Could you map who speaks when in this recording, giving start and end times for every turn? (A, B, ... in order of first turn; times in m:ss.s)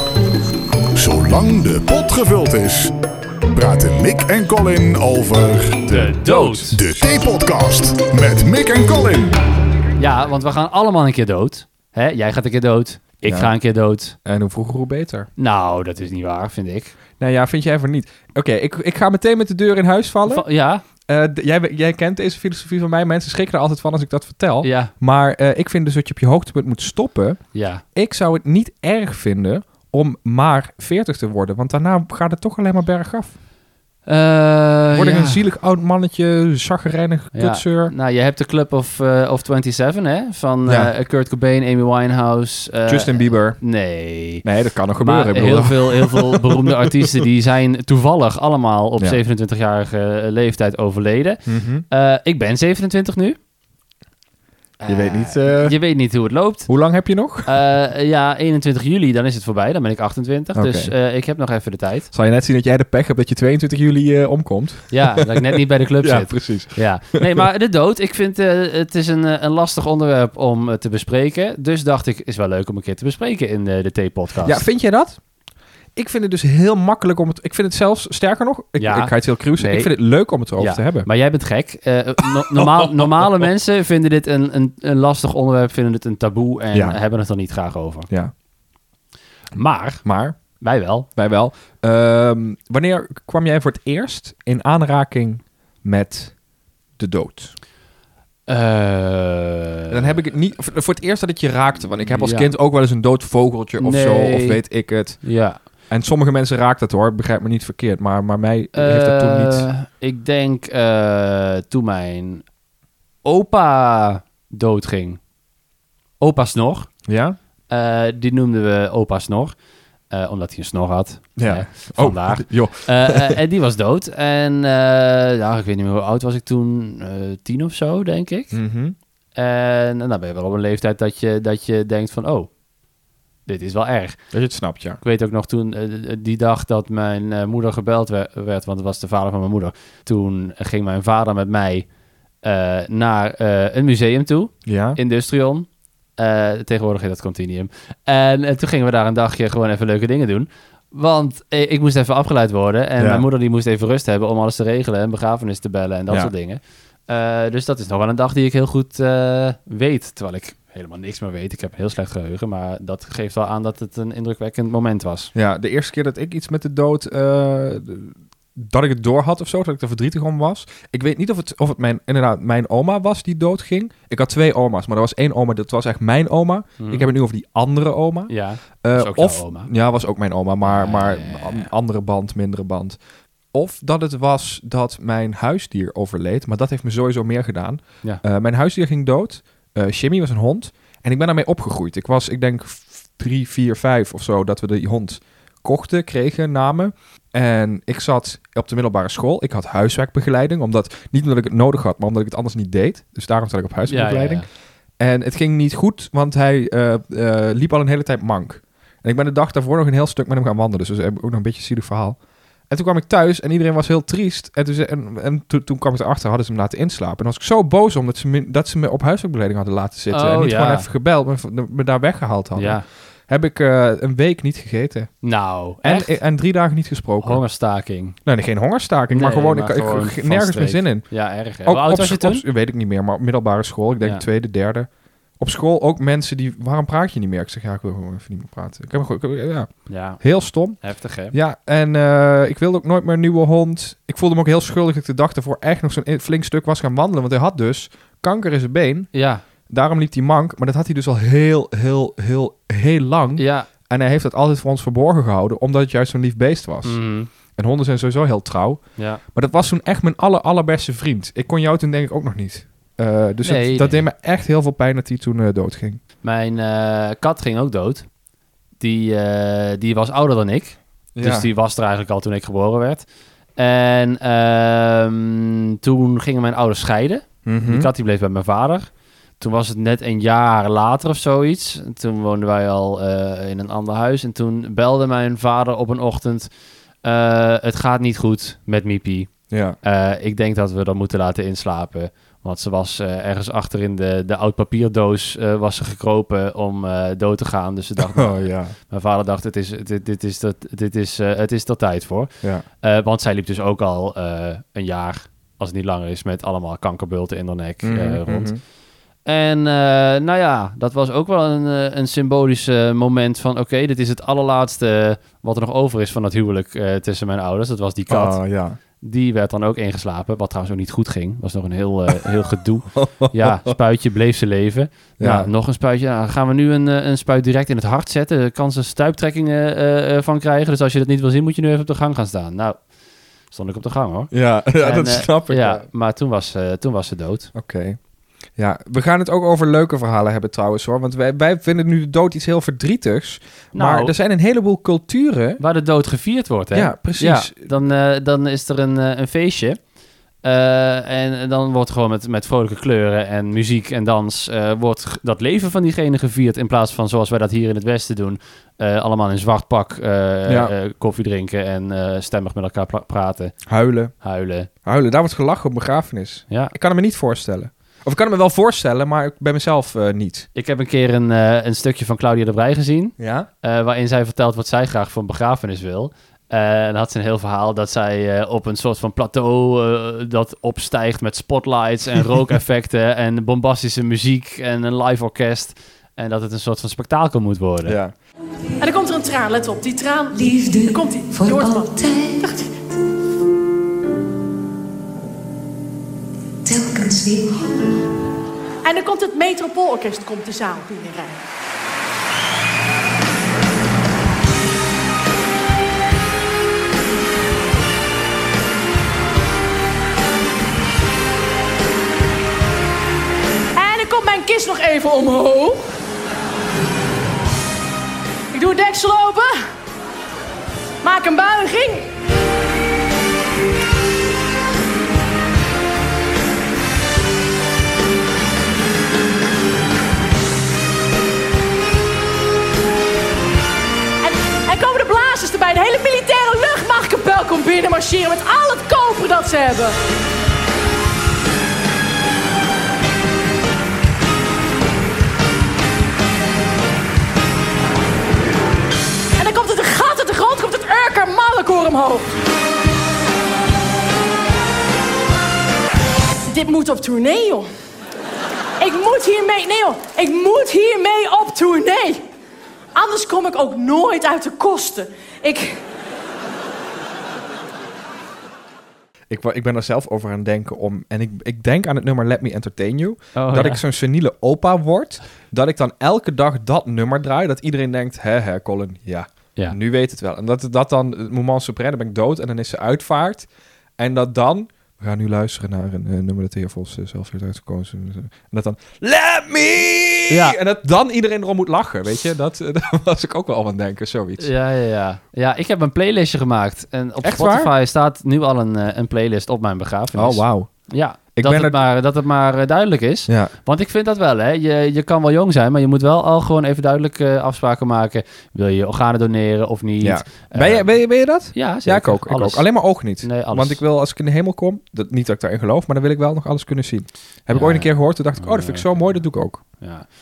0:00.9-0:02.9 A
0:03.5-0:06.0 A
0:05.9-0:06.8 B
0:05.9-0:06.8 C
0:06.7-0:09.4 A
0:10.0-0:14.2 C
0:13.2-0:13.5 B
0:14.2-0:15.3 B
0:15.4-0:16.9 C
0:17.2-0:20.4 B
0:20.2-0:20.8 C
0:21.1-0:27.4 B
0:24.6-0:24.9 C
0:27.5-0:27.8 C
0:27.9-0:33.3 B
0:34.0-0:35.4 C
0:34.9-0:37.9 B
0:37.3-0:44.4 C
0:40.6-0:40.9 B
0:42.9-0:43.6 B
0:44.4-0:47.1 B
0:45.0-0:53.4 C
0:51.4-0:51.8 B
0:54.8-0:56.8 C
0:54.9-0:55.8 B
0:56.7-0:57.5 B
0:57.4-1:02.1 C
1:00.5-1:00.9 B
1:02.1-1:05.4 B
1:04.9-1:14.6 C
1:06.0-1:07.4 B
1:14.4-1:15.2 B
1:16.0-1:21.1 B
1:18.8-1:19.9 C
1:20.6-1:28.1 C
1:22.6-1:23.1 B
1:26.7-1:27.0 B
1:29.5-1:30.0 C
1:30.0-1:30.4 B
1:30.6-1:31.1 C
1:31.2-1:36.4 B
1:37.0-1:37.5 B
1:38.5-1:40.1 C
1:39.9-1:45.3 B
1:42.1-1:42.5 C
1:43.8-1:44.6 C
1:45.2-1:45.6 C
1:45.9-1:49.7 B
1:48.7-1:52.4 C
1:53.2-1:55.2 C
1:56.2-1:56.9 C
1:57.1-1:57.4 B
1:57.7-1:59.5 C
2:00.1-2:08.6 C
2:01.4-2:03.4 B
2:08.5-2:09.0 B
2:09.4-2:12.5 C
2:13.5-2:14.2 C
2:14.3-2:15.0 B
2:15.0-2:21.8 C
2:22.4-2:25.7 C
2:24.6-2:25.0 B
2:26.2-2:45.3 C
2:33.0-2:33.2 B
2:45.3-3:03.0 B
2:56.8-2:57.1 C
2:58.3-2:59.7 C
3:00.6-3:01.7 C
3:03.5-3:24.4 B
3:23.9-3:24.4 C
3:25.0-3:32.2 B
3:32.7-3:45.1 B
3:40.1-3:40.9 C
3:42.6-3:42.8 C
3:45.2-3:46.1 C
3:45.8-3:47.4 B
3:47.2-3:48.2 C
3:48.2-3:51.1 B
3:49.1-3:52.4 C
3:51.6-4:00.8 B
3:59.9-4:01.3 C
4:01.3-4:09.1 B
4:09.1-4:09.4 C
4:09.7-4:17.0 B
4:13.4-4:13.7 C
4:16.8-4:17.3 C
4:17.5-4:18.8 B
4:19.0-4:19.2 C
4:19.3-4:26.0 B
4:23.4-4:24.0 C
4:26.2-4:28.0 C
4:28.8-4:33.0 C
4:31.2-4:31.5 B
4:33.6-4:38.8 C
4:37.4-4:37.9 B
4:39.4-4:46.5 C
4:47.0-4:49.3 C
4:49.5-4:49.8 B
4:49.8-5:02.3 C
4:58.0-4:58.7 B
5:02.8-5:08.5 C
5:07.8-5:08.6 B
5:09.2-5:18.4 C
5:18.1-5:18.8 B
5:19.0-5:32.8 C
5:22.9-5:23.7 B
5:25.2-5:25.5 B
5:33.5-5:37.5 C
5:34.3-5:35.8 B
5:37.5-5:38.0 B
5:38.6-5:45.6 B
5:43.7-5:44.1 C
5:45.6-5:49.8 C
5:46.7-5:47.6 B
5:50.4-6:03.6 C
6:00.5-6:00.7 B
6:03.7-6:04.1 B
6:04.2-6:04.7 C
6:04.8-6:10.5 B
6:10.5-6:28.0 C
6:13.2-6:13.5 B
6:27.8-6:28.1 B
6:28.8-6:32.7 D
6:30.3-6:32.4 E
6:36.6-6:38.0 E
6:38.8-6:41.4 D
6:53.8-6:55.8 D
6:58.5-6:59.6 D
7:01.0-7:02.1 D
7:14.2-7:20.0 D
7:29.4-7:32.3 D
7:36.4-7:37.7 D
7:38.8-7:42.2 D
7:42.9-7:45.8 D
7:49.3-8:14.5 B
7:53.3-7:53.8 C
8:10.3-8:10.6 C
8:14.4-8:30.9 C
8:17.2-8:17.7 B
8:20.1-8:20.7 B
8:21.3-8:21.8 B
8:23.3-8:23.5 B
8:30.0-8:39.6 B
8:31.5-8:33.8 C
8:37.5-8:39.1 C
8:39.8-8:40.1 C